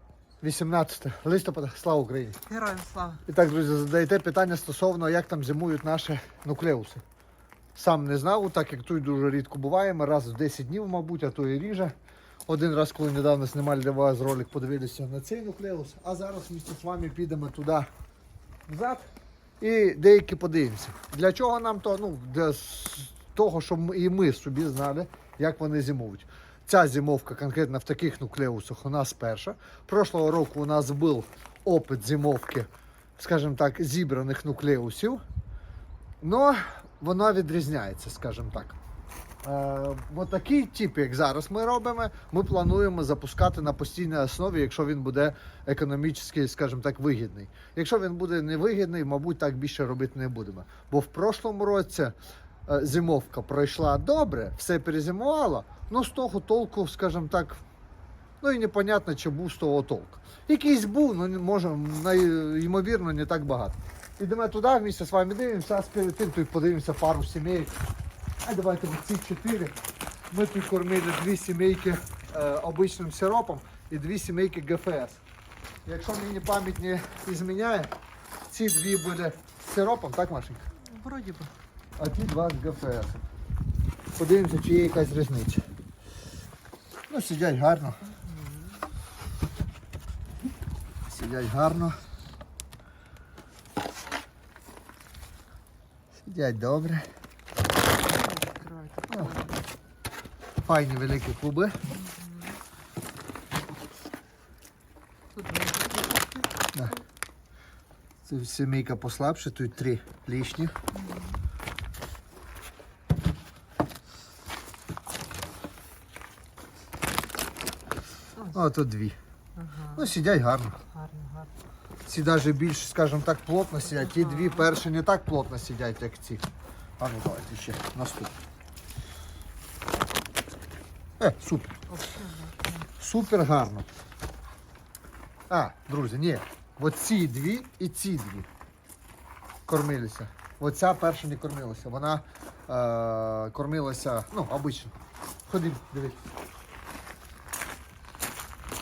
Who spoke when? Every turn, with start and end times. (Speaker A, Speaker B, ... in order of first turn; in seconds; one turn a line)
Speaker A: 0.4-2.4
Speaker B: 2.5-3.2
Speaker A: 3.2-7.0
Speaker A: 7.7-11.9
Speaker A: 12.5-17.9
Speaker A: 18.7-19.1
Speaker A: 19.6-35.2
Speaker A: 36.2-38.8
Speaker A: 39.4-52.1
Speaker A: 52.7-57.6
Speaker A: 58.4-67.7
Speaker A: 68.4-69.7
Speaker A: 70.3-75.2
Speaker A: 75.8-77.9
Speaker A: 78.5-80.6
Speaker B: 80.8-81.5
Speaker A: 82.0-83.2
Speaker A: 84.2-85.6
Speaker A: 87.1-88.0
Speaker B: 88.0-88.8
Speaker A: 91.1-92.0
Speaker A: 96.2-97.1
Speaker B: 98.0-99.6
Speaker A: 100.6-101.8
Speaker B: 101.9-102.6
Speaker B: 105.3-106.5
Speaker A: 106.7-107.0
Speaker A: 108.2-110.7
Speaker B: 110.9-111.4
Speaker B: 118.3-118.6
Speaker A: 118.5-119.2
Speaker B: 119.5-120.1
Speaker A: 119.9-120.8
Speaker B: 120.9-121.5
Speaker A: 122.0-126.4
Speaker B: 123.8-124.7
Speaker A: 127.0-128.3
Speaker A: 131.2-131.8
Speaker B: 131.9-132.9
Speaker A: 133.0-133.9
Speaker A: 135.5-138.5
Speaker A: 139.7-144.9
Speaker A: 145.5-146.2